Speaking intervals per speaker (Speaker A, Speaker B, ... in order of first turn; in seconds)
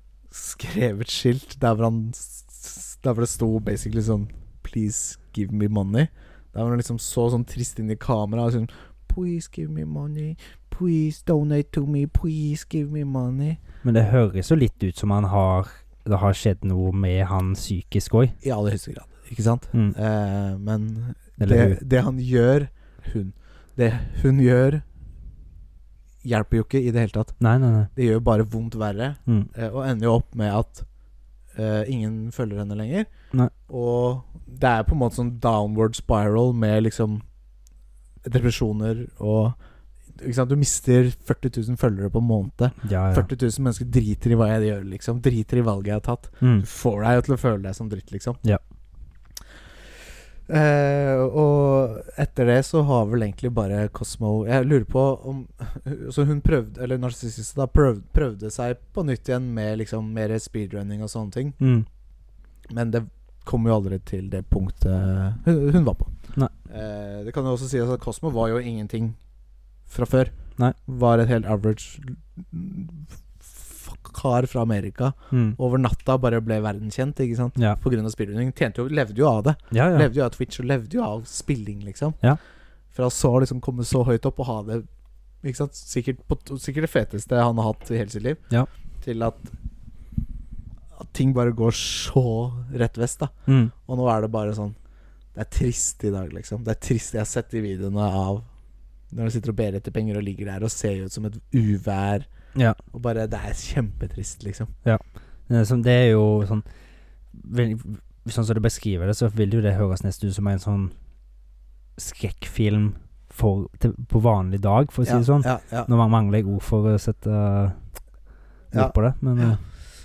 Speaker A: 0.3-13.6, 18.4-24.8, 26.2-27.4, 27.9-30.9, 31.6-33.1, 33.7-37.2, 38.2-39.6, 40.1-48.4, 50.5-61.6, 62.7-66.1, 66.7-69.2, 69.9-70.3, 70.8-82.2, 82.9-84.9, 85.4-88.4, 89.0-89.5, 91.0-94.8, 95.3-98.5, 99.1-102.3, 102.9-104.7, 115.0-115.9, 118.7-119.6
Speaker B: 13.8-18.4, 21.4-21.8, 27.4-27.9, 42.8-43.3, 46.4-46.7, 61.6-61.9, 75.3-75.6, 79.7-80.1, 93.5-93.7, 104.8-106.6, 107.3-110.9, 112.0-117.8, 118.7-119.6